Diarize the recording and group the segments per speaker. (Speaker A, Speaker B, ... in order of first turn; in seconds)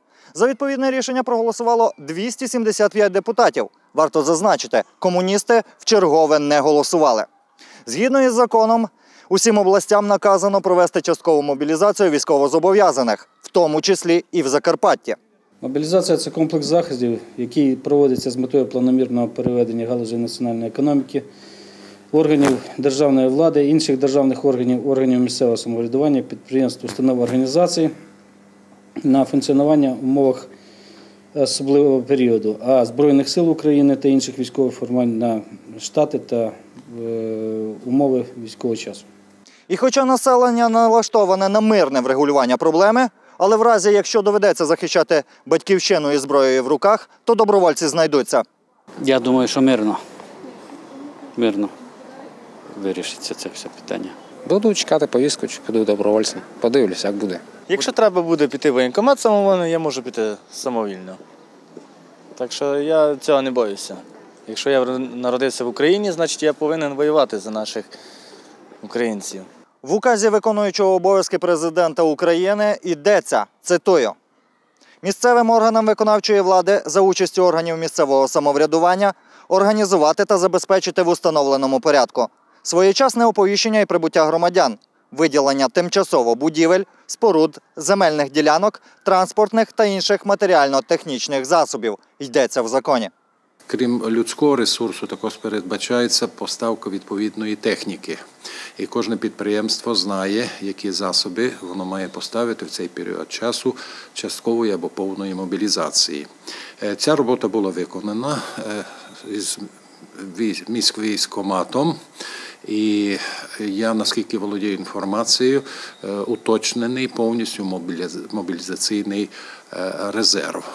Speaker A: 0.3-7.3, 7.8-15.2, 39.7-48.4, 69.8-74.1, 75.0-93.1
Speaker B: 15.6-21.2, 22.1-27.9, 29.0-30.5, 31.3-39.0
Speaker C: 49.0-50.0, 51.4-51.7, 52.8-54.1
Speaker D: 54.4-57.4
Speaker E: 57.7-61.2, 62.4-67.9, 68.8-69.4
Speaker F: 93.7-98.2, 98.8-106.2, 106.8-111.9, 112.6-120.6